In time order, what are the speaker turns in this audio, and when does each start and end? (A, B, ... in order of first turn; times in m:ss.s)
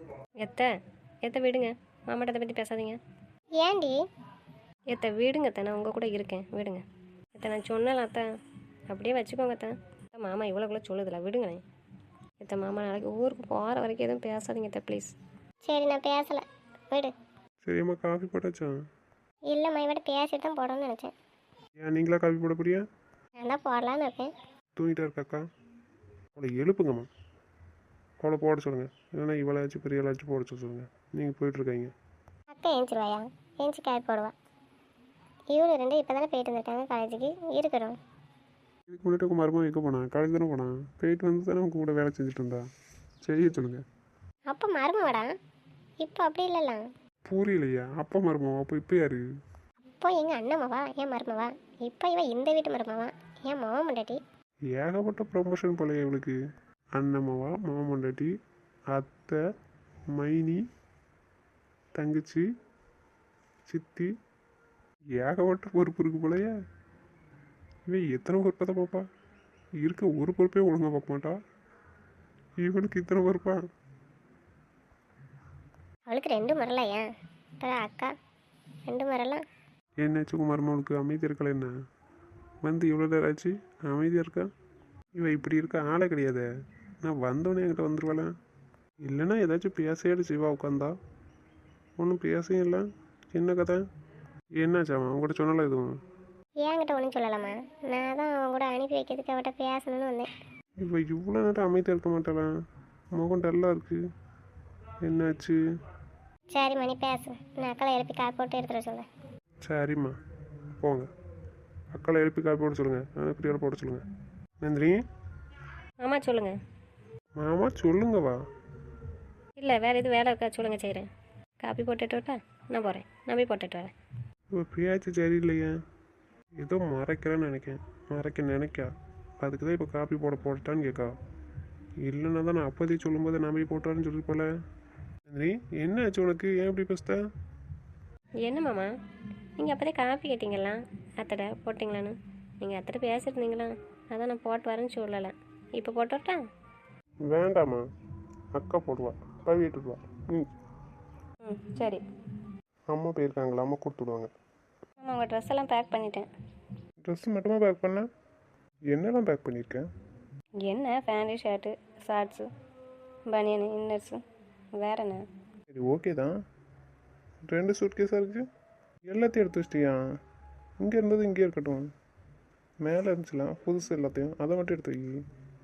0:00.4-0:00.7 A
0:01.2-0:03.0 A
0:03.6-0:04.0 B
0:04.9-0:06.8 A
0:07.4-0:08.3 A
0:08.9-0:11.6 A
0:12.4-0:15.2 A
0:15.6-0:17.1 B
0:17.6-0:18.7 C
0:19.5-0:21.1 B
0:21.8-0:22.8 C
0:23.4-0:24.3 B
0:24.8-0:25.4 C
0:26.4-0:27.1 C
0:28.2-0:31.9 C
0:32.5-0:34.3 B
0:35.5-0:38.0 B
0:38.9-0:42.6 C
0:43.2-0:43.8 C
0:44.5-0:45.3 B
0:46.0-0:46.8 B
0:47.3-0:49.3 C
0:50.0-0:54.2 B
0:54.7-0:56.4 C
0:57.0-0:58.3 C
0:58.9-0:59.4 C
1:00.1-1:00.6 C
1:02.0-1:02.4 C
1:03.7-1:04.1 C
1:05.2-1:06.5 C
1:07.9-1:09.1 C
1:09.8-1:11.4 C
1:12.6-1:13.6 C
1:16.1-1:17.1 B
1:17.6-1:18.1 B
1:18.9-1:19.4 B
1:20.0-1:21.7 C
1:22.6-1:24.5 C
1:25.2-1:26.5 C
1:27.0-1:28.3 C
1:29.0-1:30.9 C
1:32.0-1:33.8 C
1:34.6-1:36.0 C
1:36.6-1:40.3 B
1:40.8-1:42.5 C
1:43.2-1:44.0 C
1:45.0-1:45.6 C
1:46.5-1:49.1 B
1:49.6-1:50.2 C
1:50.8-1:51.1 C
1:51.9-1:54.0 C
1:54.6-1:55.0 C
1:56.0-1:56.6 A
1:57.4-1:58.4 C
1:59.6-2:01.1 A
2:01.6-2:03.9 A
2:04.5-2:05.7 C
2:06.6-2:11.2 C
2:12.0-2:14.5 C
2:15.3-2:17.2 C
2:18.4-2:18.9 A
2:19.6-2:26.4 A
2:27.3-2:27.8 C
2:28.5-2:30.5 C
2:31.4-2:32.0 A
2:32.9-2:34.3 C
2:35.0-2:36.3 A
2:37.0-2:38.1 C
2:38.9-2:39.8 C
2:40.6-2:42.4 A
2:43.3-2:44.2 A
2:44.8-2:45.2 A
2:45.7-2:46.3 C
2:47.5-2:48.5 C
2:49.1-2:50.0 C
2:50.8-2:51.9 C
2:52.8-2:55.2 C